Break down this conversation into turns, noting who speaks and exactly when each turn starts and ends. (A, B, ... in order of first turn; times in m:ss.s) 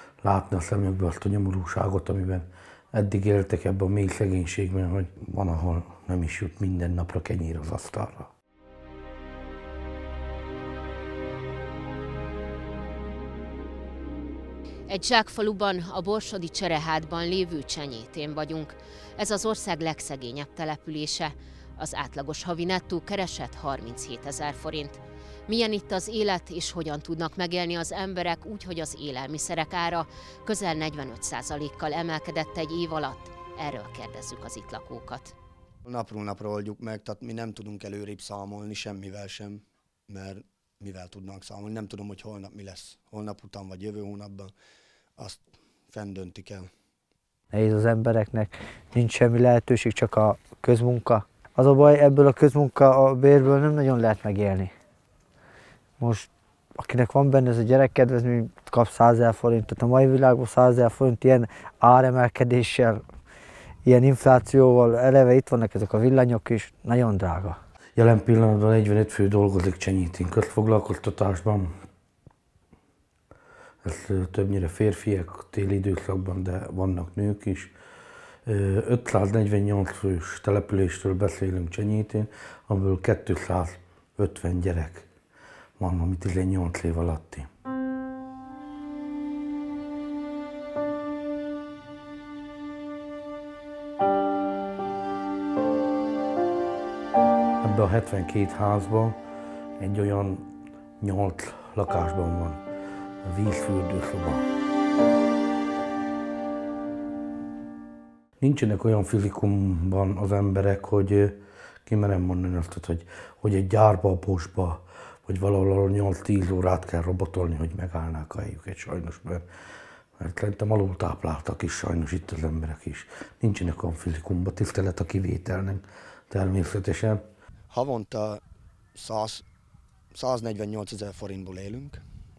0:00.2-0:08.3 A
0:14.9-0:35.3 B
0:35.9-0:44.5 C
0:45.2-0:46.7 C
0:47.5-0:54.7 D
0:56.0-1:03.0 D
1:03.8-1:07.6 D
1:08.0-1:11.7 A
1:13.8-1:17.7 A
1:18.5-1:25.1 A
1:25.8-1:27.5 A
1:37.6-1:39.2 A
1:39.8-1:40.5 A
1:41.0-1:42.6 A
1:43.2-1:44.4 A
1:48.4-1:51.4 A
1:51.9-1:59.4 A
2:00.2-2:07.2 A
2:07.7-2:08.4 C
2:09.0-2:09.4 C
2:10.2-2:12.0 C